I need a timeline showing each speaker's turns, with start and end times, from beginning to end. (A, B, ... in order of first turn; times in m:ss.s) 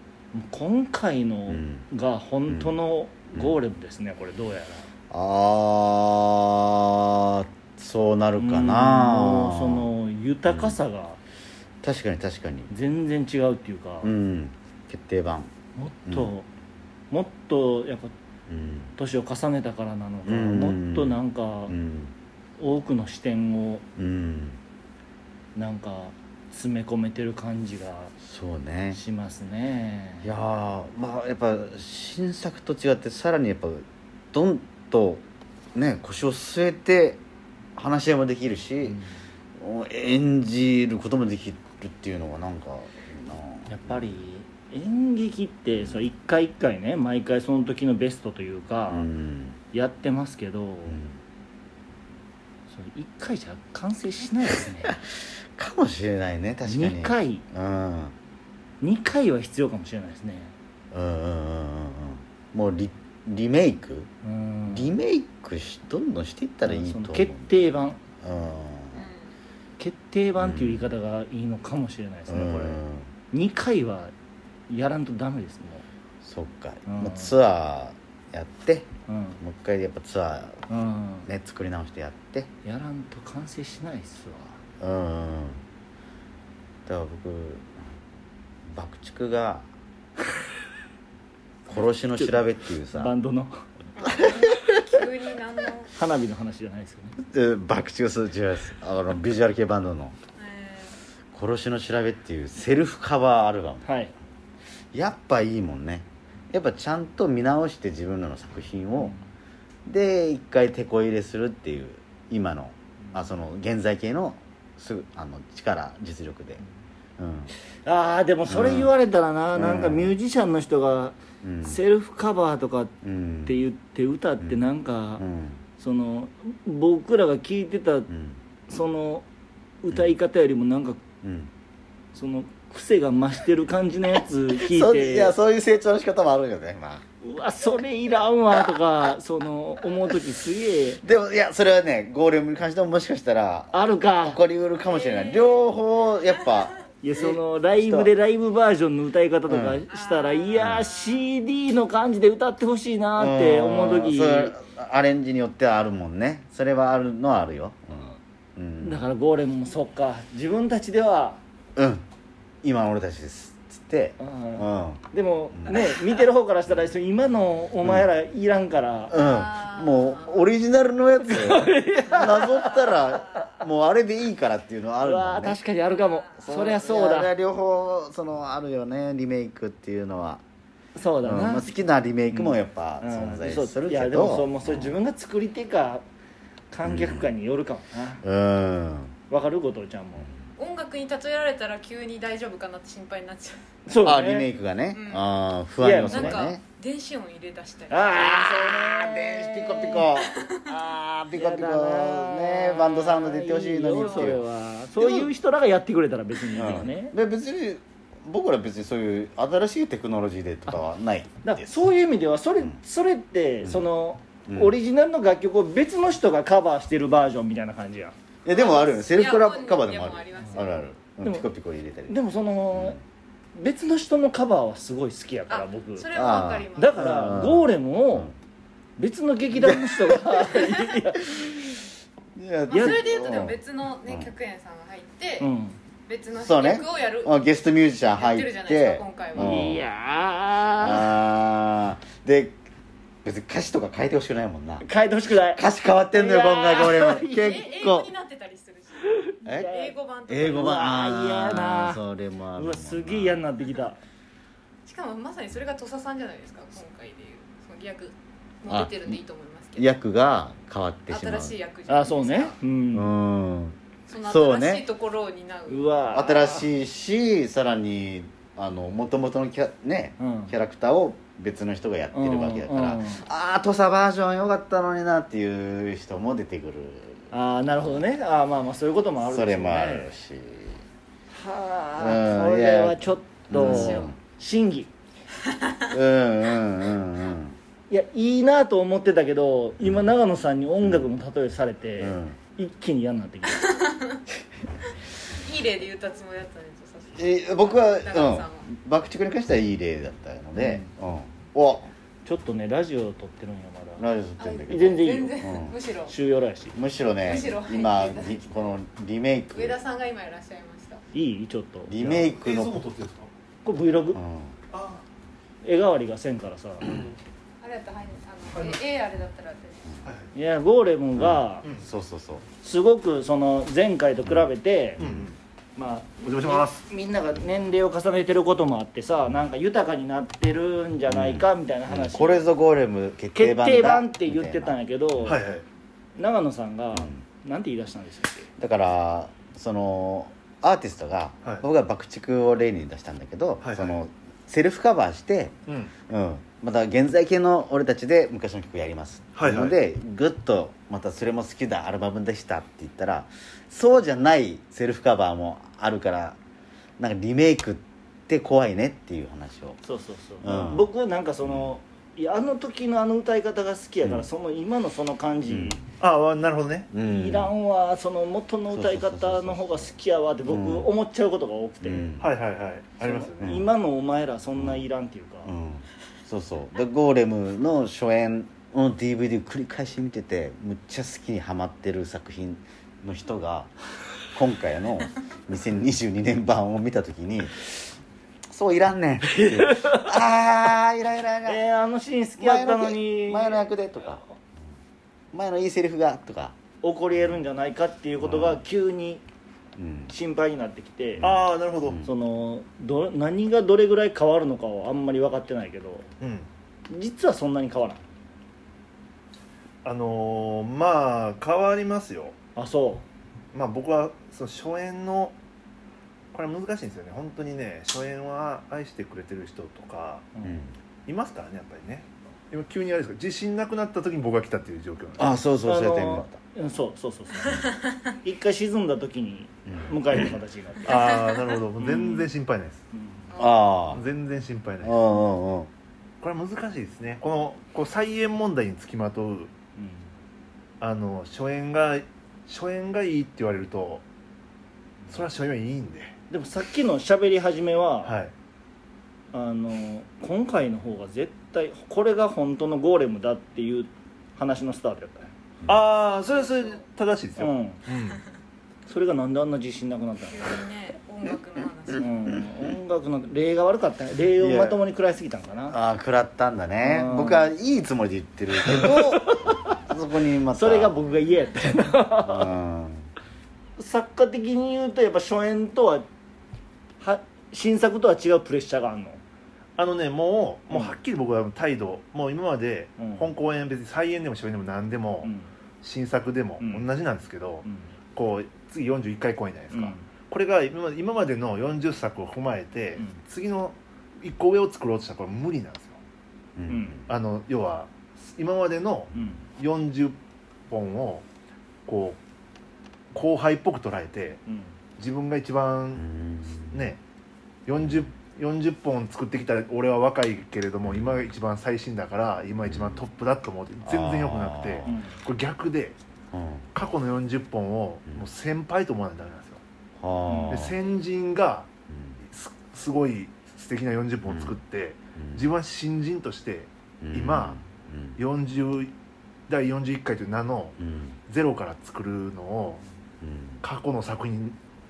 0:00.3-0:04.9 A
0:01.5-0:01.8 B
0:02.5-0:02.8 B
0:05.1-0:09.9 B
0:08.4-0:11.2 A
0:10.5-0:10.8 B
0:11.8-0:12.7 B
0:12.7-0:14.1 A
0:14.0-0:15.5 B
0:15.8-0:16.5 A
0:16.1-0:16.3 B
0:17.1-0:18.1 A
0:18.5-0:18.9 B
0:19.0-0:21.8 A
0:20.3-0:22.1 B
0:22.6-0:23.8 A
0:24.0-0:24.6 B
0:25.6-0:28.1 A
0:28.2-0:29.0 B
0:28.9-0:30.3 A
0:30.2-0:35.2 B
0:35.8-0:37.2 B
0:37.8-0:39.0 B
0:38.8-0:39.2 A
0:39.6-0:44.2 B
0:43.7-0:49.1 A
0:45.8-0:46.1 B
0:48.9-0:49.6 B
0:49.7-0:51.0 A
0:50.9-0:51.2 B
0:52.7-0:55.0 A
0:54.9-0:58.1 B
0:56.6-0:57.4 A
0:58.8-1:00.5 A
1:00.9-1:04.1 B
1:04.2-1:04.9 A
1:04.7-1:07.5 B
1:06.6-1:08.0 A
1:08.2-1:09.1 B
1:08.9-1:09.3 C
1:09.8-1:14.1 A
1:10.4-1:10.8 B
1:12.3-1:13.1 B
1:14.7-1:15.8 A
1:16.2-1:18.9 B
1:16.9-1:17.3 A
1:19.1-1:19.4 A
1:19.4-1:20.6 B
1:20.7-1:21.3 A
1:21.3-1:22.5 B
1:22.6-1:24.6 A
1:24.8-1:25.6 B
1:26.9-1:27.8 B
1:28.7-1:29.7 B
1:31.7-1:33.1 B
1:32.2-1:33.6 A
1:34.0-1:35.9 C
1:34.1-1:34.7 B
1:35.9-1:37.2 A
1:37.2-1:40.2 B
1:40.4-1:41.0 C
1:41.3-1:43.9 B
1:43.8-1:44.1 A
1:44.9-1:49.2 B
1:49.0-1:49.3 A
1:49.9-1:56.6 B
1:57.2-1:57.5 B
1:57.8-2:05.2 A
1:58.5-1:58.9 B
1:59.6-2:00.1 B
2:01.4-2:01.8 B
2:03.0-2:03.6 B
2:05.2-2:05.6 B
2:05.8-2:08.1 A
2:08.1-2:08.4 B
2:08.7-2:09.2 A
2:09.8-2:11.0 A
2:11.2-2:11.5 B
2:12.1-2:15.4 A
2:14.6-2:17.0 B
2:17.2-2:21.0 A
2:21.0-2:28.1 B
2:23.7-2:24.4 A
2:24.9-2:25.6 C
2:27.0-2:34.6 A
2:29.5-2:29.8 B
2:29.9-2:30.9 C
2:30.6-2:30.9 B
2:33.2-2:39.0 B
2:38.8-2:41.4 A
2:41.8-2:42.0 B
2:42.6-2:45.9 B
2:44.2-2:49.2 A
2:49.1-2:55.6 B
2:49.1-2:50.4 C
2:51.2-2:53.0 A
2:55.0-2:57.3 A
2:55.9-2:56.4 C
2:56.4-3:00.4 B
3:01.0-3:01.8 A
3:01.2-3:05.0 B
3:02.3-3:06.0 A
3:06.7-3:08.2 A
3:06.8-3:07.3 B
3:08.2-3:09.2 B
3:09.3-3:10.3 A
3:10.6-3:13.6 C
3:13.9-3:14.5 A
3:14.0-3:16.6 B
3:14.9-3:15.3 C
3:15.8-3:16.5 A
3:16.0-3:18.5 C
3:17.9-3:20.1 A
3:18.1-3:24.4 B
3:20.1-3:20.6 C
3:21.3-3:27.2 A
3:24.0-3:24.4 C
3:25.0-3:25.3 B
3:26.5-3:31.7 B
3:31.4-3:38.2 A
3:34.5-3:34.8 B
3:38.4-3:42.2 B
3:38.5-3:40.9 C
3:40.4-3:40.7 A
3:42.1-3:43.0 A
3:42.7-3:43.0 B
3:43.5-3:46.1 A
3:45.5-3:47.4 C
3:46.1-3:48.4 B
3:46.8-3:48.3 A
3:49.0-3:51.5 A
3:49.5-3:50.5 B
3:51.2-3:51.8 B
3:52.4-3:54.3 B
3:52.7-3:55.5 C
3:52.7-3:53.0 A
3:55.4-3:55.8 A
3:56.1-3:57.4 C
3:56.4-3:59.8 B
3:58.1-3:59.7 C
3:59.4-4:01.1 A
4:00.8-4:02.6 B
4:03.2-4:04.8 B
4:04.8-4:07.6 A
4:05.6-4:08.1 B
4:07.4-4:11.0 C
4:09.3-4:10.0 A
4:09.4-4:09.7 B
4:10.3-4:13.4 B
4:10.5-4:12.0 A
4:12.6-4:14.0 A
4:14.8-4:19.9 C
4:18.7-4:19.2 B
4:19.8-4:21.6 B
4:21.1-4:22.6 C
4:21.9-4:23.1 A
4:22.9-4:24.9 B
4:24.1-4:25.9 C
4:25.7-4:26.7 A
4:26.1-4:37.3 B
4:30.2-4:30.5 A
4:32.1-4:33.2 A
4:37.3-4:40.1 A
4:39.3-4:40.8 B
4:41.3-4:44.9 A
4:42.0-4:44.2 B
4:43.6-4:44.1 C
4:45.9-4:47.6 B
4:47.9-4:53.7 A
4:50.8-4:51.1 B
4:52.0-4:52.4 B
4:53.6-4:54.2 C
4:55.4-4:58.7 C
4:57.2-5:01.9 B
5:00.6-5:00.9 A
5:02.2-5:04.1 A
5:04.0-5:05.8 B
5:04.4-5:06.1 C
5:04.7-5:05.4 A
5:06.1-5:06.8 A
5:06.7-5:09.8 B
5:07.2-5:08.4 C
5:09.5-5:11.0 C
5:11.1-5:12.3 A
5:11.9-5:12.8 B
5:12.1-5:13.3 D
5:13.6-5:14.2 A
5:14.1-5:14.6 B
5:14.7-5:15.0 D
5:15.6-5:16.9 A
5:16.8-5:17.2 D
5:17.6-5:19.9 C
5:18.5-5:18.8 D
5:20.0-5:20.3 D
5:20.4-5:21.6 A
5:21.2-5:22.5 B
5:22.6-5:25.0 A
5:25.0-5:25.3 B
5:25.0-5:25.4 D
5:25.8-5:32.5 A
5:26.2-5:26.8 D
5:31.1-5:35.3 B
5:33.3-5:35.4 A
5:35.2-5:35.6 D
5:36.2-5:38.5 A
5:37.0-5:37.2 B
5:38.6-5:45.6 B
5:43.6-5:44.0 D
5:45.7-5:45.9 D
5:46.1-5:56.4 B
5:49.4-5:49.8 D
5:57.0-5:59.8 B
5:59.8-6:05.8 A
6:00.4-6:00.9 B
6:05.5-6:05.8 B
6:06.0-6:06.9 D
6:06.9-6:07.5 B
6:07.0-6:12.2 A
6:08.7-6:09.9 B
6:10.4-6:10.9 B
6:11.8-6:12.3 B
6:12.2-6:13.6 D
6:13.0-6:15.5 A
6:13.4-6:13.7 B
6:14.6-6:14.8 B
6:15.4-6:23.7 B
6:24.3-6:28.0 B
6:28.5-6:31.6 B
6:29.6-6:30.1 A
6:31.5-6:33.7 A
6:32.4-6:34.2 B
6:35.3-6:36.6 B
6:36.8-6:39.2 A
6:38.2-6:38.6 B
6:39.8-6:40.1 B
6:40.1-6:41.3 A
6:41.2-6:42.1 B
6:41.2-6:42.0 D
6:42.0-6:46.1 A
6:46.2-6:46.5 D
6:46.9-6:48.0 A
6:49.8-6:52.4 D
6:52.6-6:53.0 A
6:53.5-6:55.4 D
6:56.3-7:00.3 D
7:00.4-7:00.7 A
7:00.4-7:00.7 B
7:01.1-7:05.4 D
7:05.2-7:06.4 B
7:05.6-7:11.1 A
7:09.7-7:10.4 B
7:10.8-7:12.8 D
7:10.9-7:11.6 C
7:11.8-7:12.3 A
7:12.9-7:13.3 A
7:13.3-7:13.6 C
7:13.3-7:14.0 B
7:13.9-7:15.0 D
7:14.8-7:15.7 B
7:16.2-7:19.5 D
7:19.8-7:20.1 A
7:20.8-7:24.0 D
7:25.1-7:26.2 D
7:26.3-7:28.2 A
7:28.0-7:28.3 D
7:29.3-7:35.3 A
7:35.7-7:38.2 D
7:36.3-7:36.8 C
7:37.4-7:37.8 A
7:38.9-7:40.6 A
7:40.3-7:42.4 C
7:42.0-7:45.8 A
7:44.4-7:44.8 B
7:45.7-7:51.0 B
7:46.8-7:47.5 A
7:48.6-7:49.8 A
7:50.5-7:52.5 A
7:52.2-7:53.1 B
7:53.8-7:56.1 A
7:57.0-7:59.2 A
7:59.8-8:05.3 D
8:00.7-8:01.0 A
8:03.0-8:03.3 A
8:05.2-8:05.5 A
8:05.8-8:16.0 D
8:06.6-8:06.9 A
8:07.6-8:07.9 A
8:09.7-8:10.1 A
8:16.6-8:17.1 B
8:16.7-8:17.0 A
8:17.1-8:20.2 D
8:19.1-8:19.4 A
8:20.7-8:21.2 D
8:21.9-8:22.2 D
8:23.1-8:24.4 D
8:24.5-8:24.7 A
8:25.0-8:27.0 D
8:26.0-8:26.9 B
8:27.7-8:36.0 D
8:27.8-8:28.1 B
8:30.9-8:31.2 B
8:32.7-8:33.0 B
8:33.9-8:34.9 B
8:34.8-8:35.2 A
8:36.3-8:36.7 B
8:36.7-8:39.6 D
8:40.0-8:40.8 B
8:40.3-8:40.7 A
8:40.5-8:41.7 D
8:41.9-8:42.2 B
8:42.3-8:47.6 D
8:44.3-8:44.6 B
8:45.2-8:45.5 B
8:47.0-8:48.2 B
8:48.2-8:48.9 D
8:49.5-8:52.8 D
8:50.8-8:51.2 B
8:53.2-8:53.6 B
8:53.6-8:54.6 D